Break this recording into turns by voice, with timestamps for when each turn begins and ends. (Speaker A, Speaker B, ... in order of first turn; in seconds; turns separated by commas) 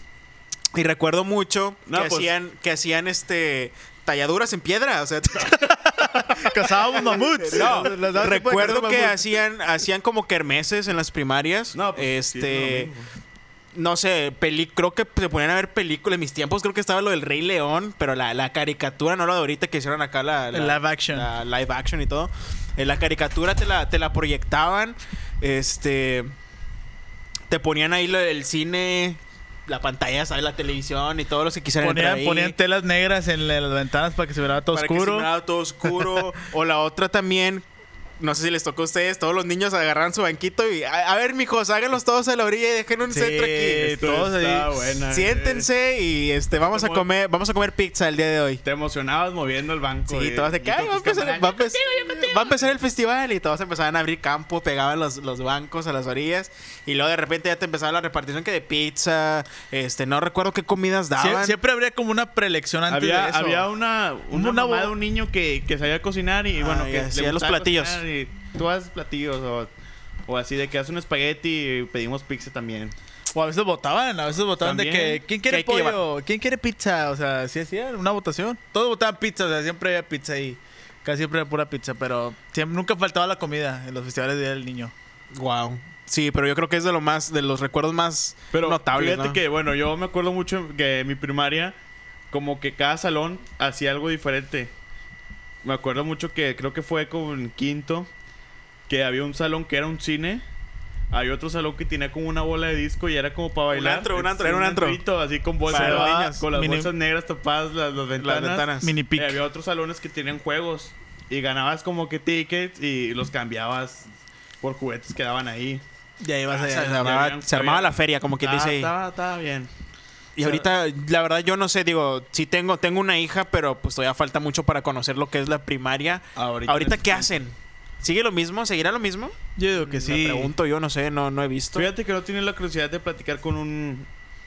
Speaker A: 0.7-5.8, Speaker B: 1.9-2.3, Speaker B: 6.0-6.5, Speaker C: 6.4-9.1, Speaker B: 7.0-9.0, Speaker A: 7.5-12.9, Speaker B: 11.7-13.1, Speaker A: 13.7-26.3, Speaker C: 20.5-21.3, Speaker A: 27.5-32.5, Speaker C: 31.8-35.3, Speaker A: 34.7-37.6, Speaker A: 38.2-44.0, Speaker C: 43.1-45.0, Speaker B: 44.0-45.7, Speaker A: 45.1-48.6, Speaker B: 46.6-47.1, Speaker B: 48.6-51.7, Speaker A: 50.1-61.6, Speaker C: 61.1-63.6, Speaker B: 62.9-69.7, Speaker C: 64.3-64.9, Speaker A: 66.6-68.0, Speaker B: 70.3-72.9, Speaker C: 73.3-84.9, Speaker B: 74.6-75.2, Speaker A: 75.5-76.0, Speaker A: 85.3-89.4, Speaker B: 88.5-91.7, Speaker B: 92.3-94.7, Speaker B: 95.6-98.1, Speaker B: 98.9-100.4, Speaker B: 101.1-114.1, Speaker A: 103.7-105.0, Speaker A: 105.7-106.4, Speaker C: 105.7-106.9, Speaker A: 108.2-108.9, Speaker C: 108.8-109.4, Speaker B: 114.6-115.8, Speaker C: 116.2-117.0, Speaker B: 116.5-119.7, Speaker A: 116.5-118.9, Speaker A: 120.3-129.3, Speaker B: 120.4-120.7, Speaker B: 126.3-127.3, Speaker C: 129.6-130.5, Speaker A: 130.0-131.9, Speaker B: 131.7-134.1